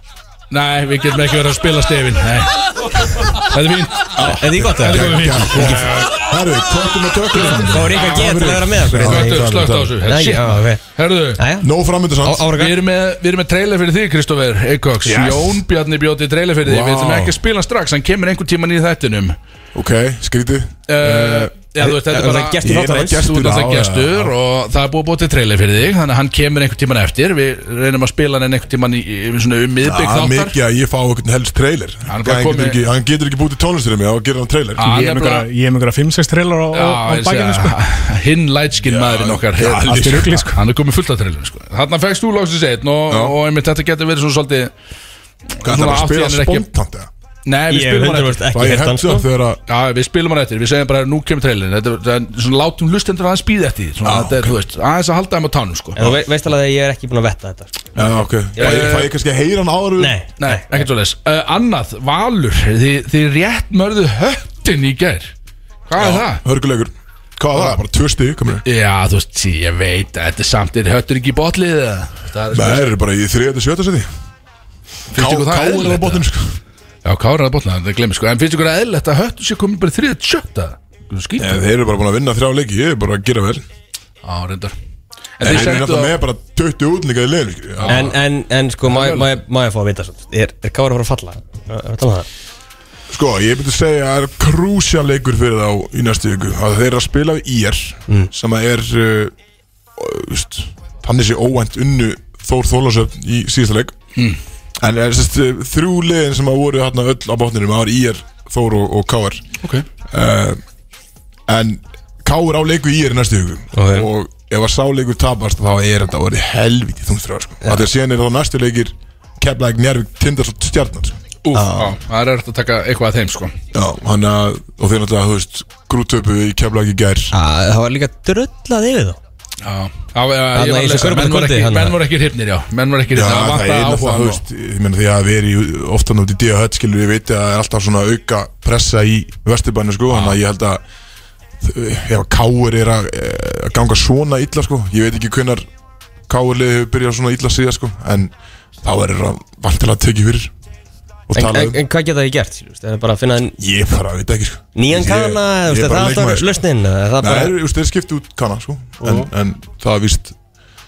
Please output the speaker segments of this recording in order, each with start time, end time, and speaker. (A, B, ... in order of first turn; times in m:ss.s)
0:00.5-0:06.1 A
0:04.2-0:10.0 B
0:04.2-0:05.9 C
0:07.6-0:10.8 C
0:07.9-0:11.4 A
0:11.4-0:11.7 C
0:11.6-0:12.6 B
0:12.2-0:12.8 C
0:12.5-0:19.4 A
0:15.0-0:15.6 B
0:16.6-0:17.4 B
0:19.7-0:21.5 B
0:20.9-0:30.6 A
0:21.8-0:23.3 C
0:22.6-0:24.3 B
0:29.8-0:34.9 B
0:32.1-0:32.8 A
0:34.8-0:35.5 A
0:34.8-0:37.8 D
0:36.7-0:44.7 A
0:38.8-0:40.5 B
0:39.8-0:40.6 D
0:43.1-0:43.4 B
0:45.5-0:46.7 A
0:45.6-0:47.1 B
0:47.4-0:48.5 A
0:47.7-0:49.3 C
0:48.5-0:49.6 B
0:49.7-0:56.1 A
0:54.0-0:54.6 B
0:56.0-0:57.7 C
0:58.0-1:00.2 B
0:58.6-0:58.9 C
0:58.6-0:59.1 A
1:00.0-1:00.9 C
1:00.4-1:05.3 A
1:05.9-1:06.4 A
1:06.0-1:08.6 B
1:08.6-1:12.9 A
1:12.5-1:14.1 B
1:15.1-1:16.6 B
1:15.1-1:16.3 A
1:17.0-1:21.6 A
1:21.4-1:23.6 B
1:24.2-1:24.8 A
1:25.4-1:26.2 A
1:25.4-1:28.2 B
1:27.8-1:28.2 A
1:27.9-1:32.3 C
1:28.9-1:29.3 A
1:33.1-1:39.3 B
1:40.0-1:44.0 B
1:44.8-1:49.4 B
1:50.1-1:50.6 B
1:51.5-2:01.2 B
1:53.7-1:54.1 C
1:57.6-1:57.9 C
2:01.4-2:03.5 A
2:01.5-2:02.0 C
2:03.7-2:07.3 B
2:07.3-2:09.2 C
2:09.6-2:14.4 A
2:10.5-2:12.0 C
2:13.1-2:20.8 B
2:20.1-2:20.4 A
2:21.6-2:25.7 B
2:26.3-2:28.3 B
2:28.8-2:30.5 B
2:31.3-2:31.8 B
2:31.4-2:33.6 C
2:33.6-2:36.6 B
2:34.8-2:37.6 C
2:37.2-2:40.4 B